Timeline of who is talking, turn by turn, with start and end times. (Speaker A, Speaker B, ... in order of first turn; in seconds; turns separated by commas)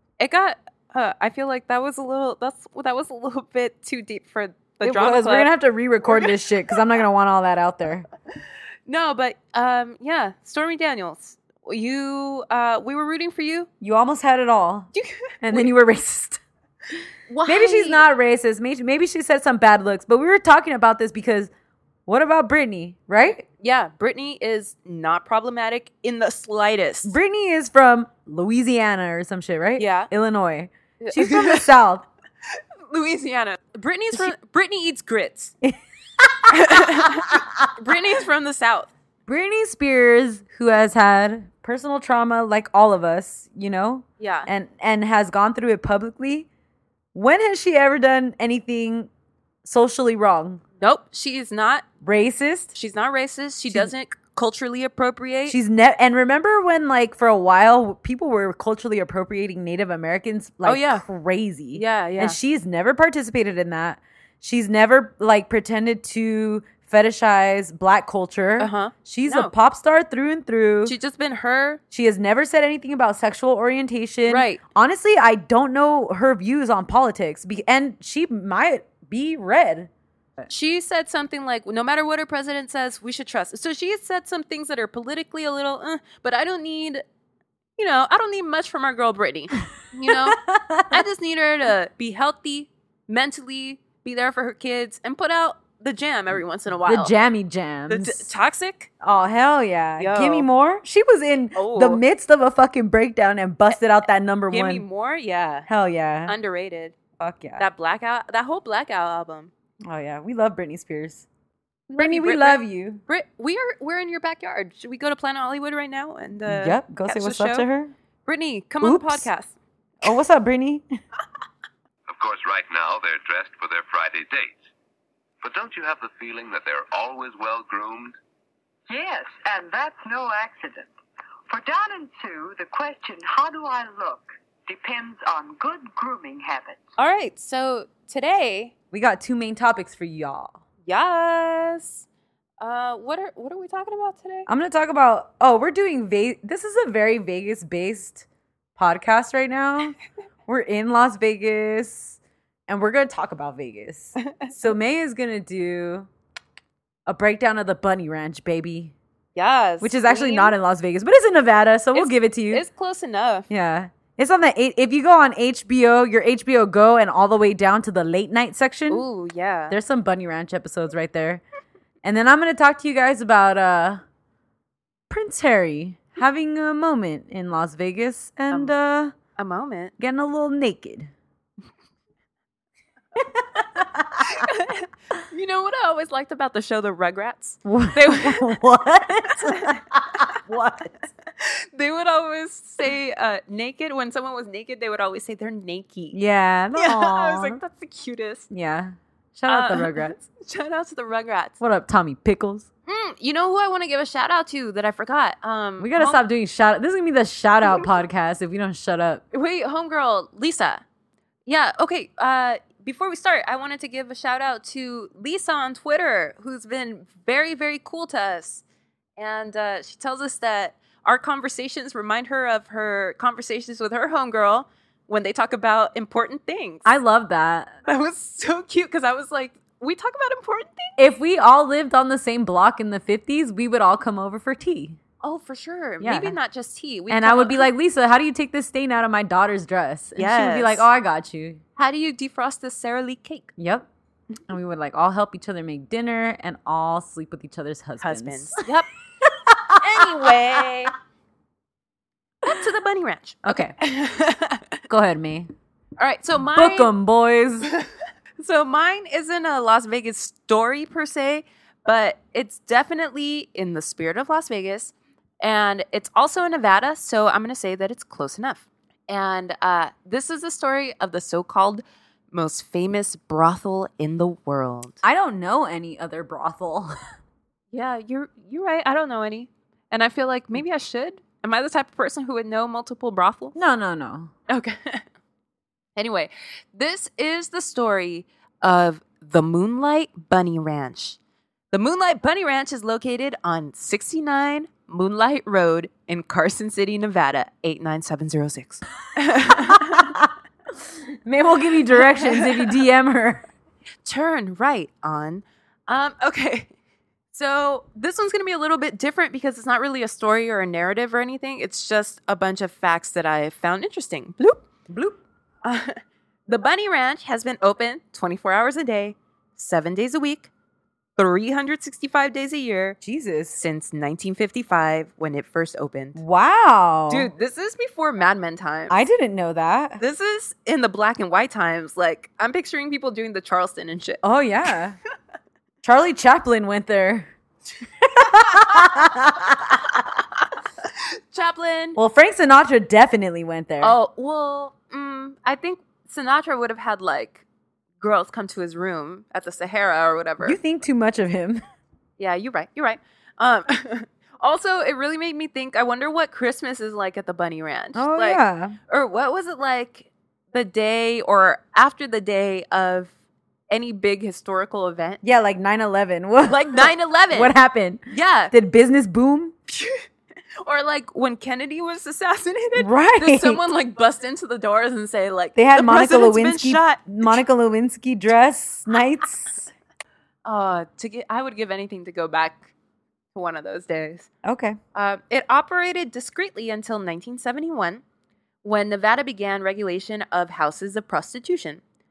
Speaker A: 0.2-5.5, Speaker B: 4.8-8.1, Speaker A: 8.9-13.7, Speaker B: 13.8-14.9, Speaker A: 14.9-15.7, Speaker B: 15.4-16.4, Speaker A: 17.3-18.1, Speaker B: 17.5-21.5, Speaker B: 22.1-23.4, Speaker A: 23.5-27.2, Speaker B: 27.1-32.1, Speaker A: 29.8-30.1, Speaker A: 31.0-31.7, Speaker A: 32.9-35.5, Speaker B: 35.6-37.4, Speaker A: 36.5-38.9, Speaker B: 39.3-46.5, Speaker A: 44.2-44.5, Speaker B: 47.1-49.1, Speaker B: 49.6-50.6, Speaker A: 50.8-51.9, Speaker B: 52.0-52.7, Speaker A: 52.7-55.6, Speaker B: 55.5-71.0, Speaker A: 60.6-61.0, Speaker A: 61.7-62.4, Speaker A: 68.6-69.5, Speaker A: 70.8-71.8, Speaker B: 71.9-79.9, Speaker A: 74.3-74.6, Speaker A: 80.5-87.0, Speaker A: 87.8-90.4, Speaker B: 90.1-91.0, Speaker A: 90.9-97.2, Speaker B: 96.8-98.3, Speaker A: 97.9-98.9, Speaker B: 99.0-104.9, Speaker A: 100.0-100.5, Speaker A: 101.5-102.0, Speaker A: 104.5-105.7, Speaker B: 105.7-106.3, Speaker A: 106.3-107.0, Speaker B: 107.2-107.7, Speaker A: 107.6-109.5, Speaker B: 109.9-111.3, Speaker A: 111.9-117.7, Speaker B: 112.0-113.0, Speaker B: 116.5-117.9, Speaker A: 118.3-119.6, Speaker B: 118.8-119.3, Speaker B: 120.0-120.8, Speaker C: 122.1-124.7, Speaker C: 125.4-128.2, Speaker D: 128.9-130.9, Speaker D: 131.5-136.8, Speaker A: 137.0-138.7, Speaker B: 138.9-140.6, Speaker A: 140.9-142.1, Speaker A: 142.6-144.5, Speaker B: 144.5-148.3, Speaker B: 148.8-150.0, Speaker B: 150.5-156.1, Speaker A: 154.2-154.5, Speaker B: 157.1-158.9, Speaker A: 159.3-160.5, Speaker B: 159.8-162.7, Speaker A: 161.9-163.5, Speaker B: 163.5-169.0, Speaker A: 168.9-169.8, Speaker B: 169.7-171.4, Speaker B: 172.0-174.0, Speaker B: 175.1-179.2, Speaker A: 179.4-179.9, Speaker B: 180.0-181.1, Speaker B: 183.2-184.3, Speaker A: 184.2-188.6, Speaker B: 187.7-190.9, Speaker A: 189.3-189.8, Speaker A: 191.4-196.2, Speaker B: 196.1-197.6, Speaker A: 196.8-198.5, Speaker B: 198.5-200.2, Speaker A: 199.5-201.6, Speaker B: 201.6-202.7, Speaker A: 202.9-206.2, Speaker B: 205.8-209.2, Speaker A: 209.3-210.8, Speaker A: 211.5-218.6, Speaker A: 219.2-226.9, Speaker B: 226.8-227.7, Speaker A: 227.9-230.9, Speaker B: 231.0-235.0, Speaker A: 235.2-237.7, Speaker B: 236.0-236.4, Speaker B: 237.1-241.6, Speaker A: 240.2-240.9, Speaker A: 241.8-243.5, Speaker B: 243.6-243.9, Speaker B: 244.5-248.5, Speaker A: 248.0-248.9, Speaker B: 249.3-250.4, Speaker A: 249.8-250.9, Speaker A: 252.4-254.8, Speaker B: 253.4-253.8, Speaker B: 254.9-255.5, Speaker A: 256.0-256.9, Speaker B: 256.5-257.7, Speaker A: 258.4-275.0, Speaker B: 275.0-276.9, Speaker A: 277.7-283.6, Speaker B: 283.6-284.3, Speaker A: 284.5-285.0, Speaker A: 286.0-291.2, Speaker A: 291.7-300.1, Speaker B: 299.9-300.3, Speaker B: 301.3-303.5, Speaker A: 302.2-302.4, Speaker A: 304.1-306.7, Speaker A: 307.3-314.6, Speaker B: 314.9-315.2, Speaker A: 315.6-320.5, Speaker A: 321.2-323.0, Speaker B: 323.0-323.6, Speaker A: 323.6-326.2, Speaker B: 326.2-327.3, Speaker A: 327.1-329.0, Speaker B: 328.9-330.0, Speaker A: 330.0-334.2, Speaker B: 334.2-335.0, Speaker B: 335.8-337.3, Speaker B: 338.0-340.0, Speaker A: 338.5-338.9, Speaker A: 340.8-342.0, Speaker B: 342.0-344.0, Speaker A: 343.8-347.4, Speaker A: 348.0-350.6, Speaker B: 350.4-351.6, Speaker A: 352.2-363.1, Speaker B: 357.9-358.8, Speaker A: 363.7-365.2, Speaker B: 365.2-369.5, Speaker A: 366.5-367.6, Speaker A: 368.1-368.5, Speaker A: 369.7-370.1, Speaker A: 370.6-377.4, Speaker B: 372.8-373.6, Speaker B: 375.6-379.6, Speaker A: 380.4-382.7, Speaker A: 383.3-384.3, Speaker B: 384.4-384.8, Speaker A: 384.9-388.0, Speaker A: 388.6-391.8